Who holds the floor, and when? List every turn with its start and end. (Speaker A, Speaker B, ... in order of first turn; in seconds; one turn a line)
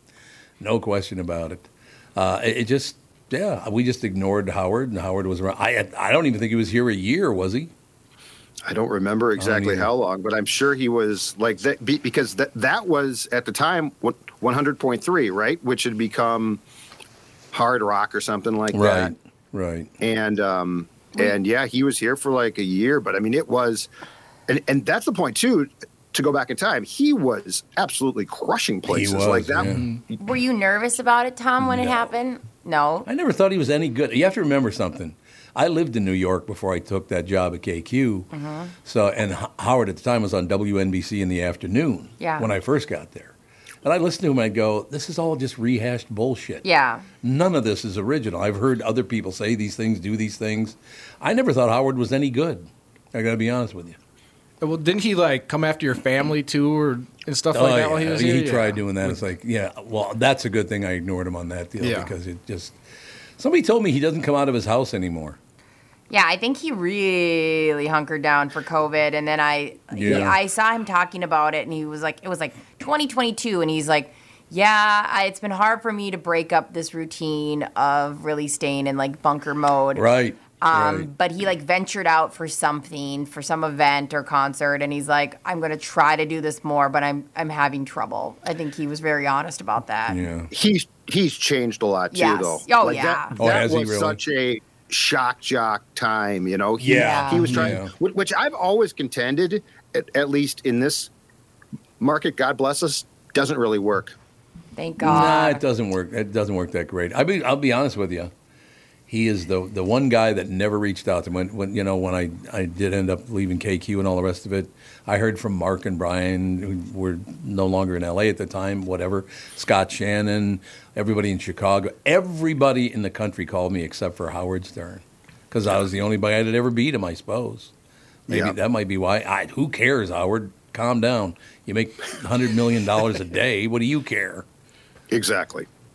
Speaker A: 0.6-7.7
Speaker B: 8.7-16.6
Speaker A: 9.4-9.9
Speaker B: 17.5-19.1
Speaker A: 18.7-19.9
Speaker B: 20.0-23.9
Speaker B: 24.5-29.9
Speaker A: 28.9-29.9
Speaker C: 30.2-33.1
Speaker A: 31.6-32.1
Speaker A: 33.0-38.3
Speaker C: 38.3-38.7
Speaker A: 38.8-46.6
Speaker C: 42.2-42.5
Speaker C: 46.6-47.0
Speaker A: 47.2-54.0
Speaker D: 54.6-59.2
Speaker A: 57.5-62.8
Speaker D: 61.8-62.1
Speaker A: 63.4-65.4
Speaker C: 66.1-80.1
Speaker A: 69.9-70.4
Speaker A: 79.9-81.1
Speaker C: 80.6-90.2
Speaker A: 90.1-90.5
Speaker B: 90.5-101.1
Speaker C: 92.1-93.3
Speaker A: 93.3-94.2
Speaker A: 96.8-97.9
Speaker C: 96.9-97.5
Speaker B: 102.0-104.2
Speaker C: 104.8-105.6
Speaker A: 105.0-108.3
Speaker A: 109.1-127.7
Speaker A: 128.3-134.4
Speaker B: 128.3-128.5
Speaker B: 135.1-135.7